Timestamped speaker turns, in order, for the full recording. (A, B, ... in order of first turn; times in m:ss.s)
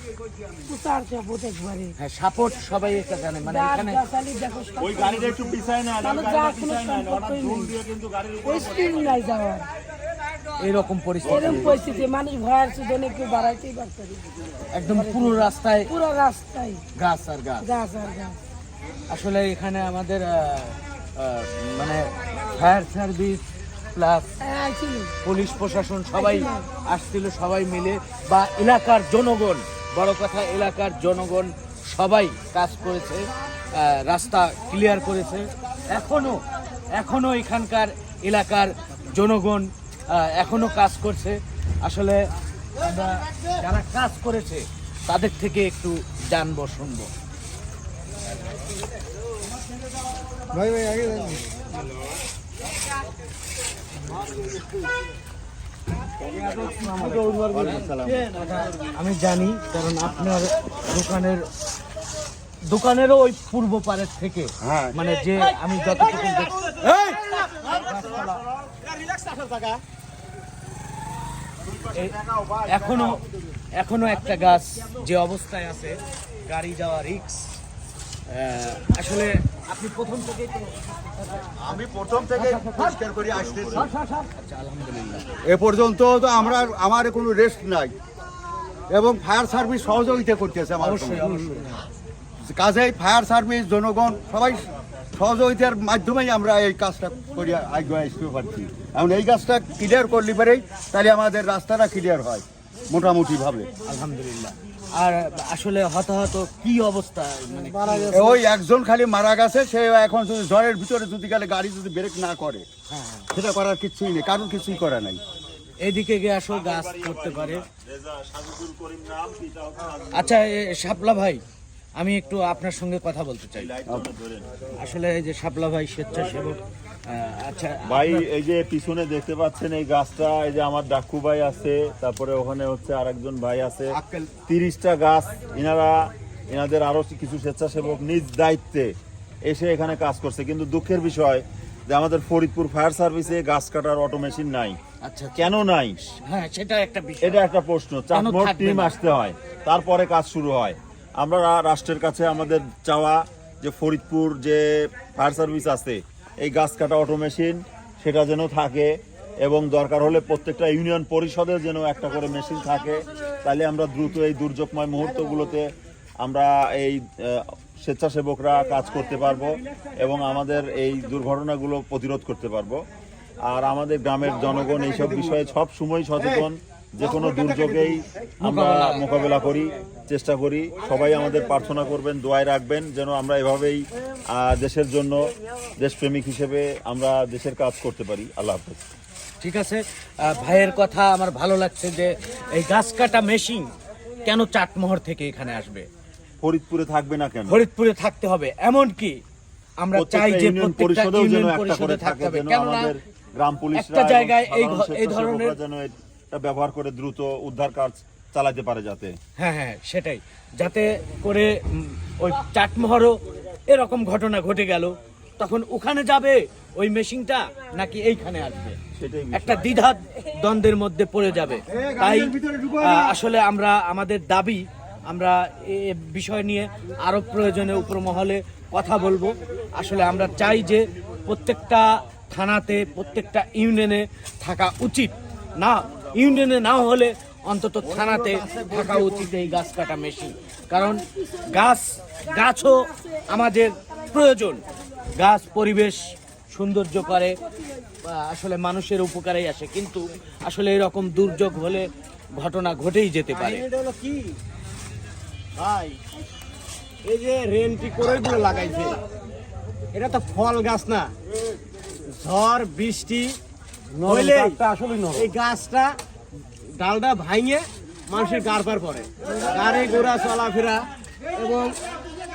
0:00.7-0:01.9 A
0:02.0-0:04.0 B
0:03.4-0:07.7 A
0:04.8-0:09.3 C
0:08.4-0:09.7 A
0:10.6-0:11.9 B
0:11.2-0:12.0 C
0:11.2-0:14.2 A
0:14.7-0:15.9 B
0:14.9-0:16.8 A
0:17.0-0:17.7 B
0:17.6-0:18.4 A
0:19.1-0:23.4 B
0:24.0-0:24.3 B
0:24.4-0:25.2 A
0:25.2-0:36.4 B
0:26.2-0:26.7 A
0:36.9-0:42.3 B
0:42.8-0:47.1 B
0:50.5-0:51.4 D
0:56.4-0:58.3 D
0:56.7-1:01.4 B
1:00.1-1:00.3 C
1:02.7-1:06.6 B
1:04.6-1:05.0 D
1:05.4-1:08.0 E
1:07.6-1:08.7 C
1:07.7-1:08.4 B
1:08.8-1:09.8 E
1:11.6-1:13.2 C
1:11.9-1:13.2 B
1:13.8-1:17.6 B
1:18.3-1:21.4 B
1:21.6-1:23.9 D
1:22.4-1:23.0 B
1:23.7-1:25.3 B
1:25.4-1:27.9 D
1:28.9-1:31.4 D
1:30.8-1:31.8 B
1:32.4-1:43.7 D
1:43.9-1:48.3 B
1:48.1-1:52.7 D
1:52.9-1:53.3 B
1:53.3-1:55.2 D
1:55.8-1:57.6 B
1:56.5-2:00.4 C
2:00.1-2:01.4 B
2:02.0-2:03.7 B
2:03.5-2:04.5 C
2:04.8-2:08.3 B
2:07.9-2:18.9 C
2:13.9-2:14.3 D
2:19.5-2:24.8 C
2:25.0-2:25.5 B
2:25.4-2:26.1 C
2:26.3-2:27.5 B
2:27.2-2:38.9 C
2:28.1-2:29.0 B
2:39.4-2:52.8 C
2:53.4-3:05.2 C
2:54.2-2:55.4 D
2:56.2-2:56.5 D
2:57.0-2:58.0 D
2:58.4-2:59.2 B
3:05.8-3:08.8 C
3:09.4-3:13.7 B
3:14.2-3:15.9 B
3:16.4-3:17.6 C
3:17.5-3:19.2 B
3:19.8-3:23.0 B
3:19.9-3:29.2 C
3:23.7-3:25.6 B
3:29.4-3:38.8 B
3:39.0-3:39.7 C
3:39.3-4:04.6 B
3:41.7-3:43.2 D
3:57.8-3:59.6 D
4:00.8-4:01.7 A
4:02.3-4:03.3 A
4:05.2-4:07.4 B
4:08.0-4:13.6 B
4:13.3-4:14.4 E
4:15.6-4:16.0 E
4:17.0-4:19.0 E
4:19.9-4:21.1 E
4:22.1-4:23.4 E
4:23.9-4:25.3 D
4:24.0-4:24.6 E
4:25.2-4:26.0 E
4:26.8-4:30.8 E
4:31.4-4:31.7 E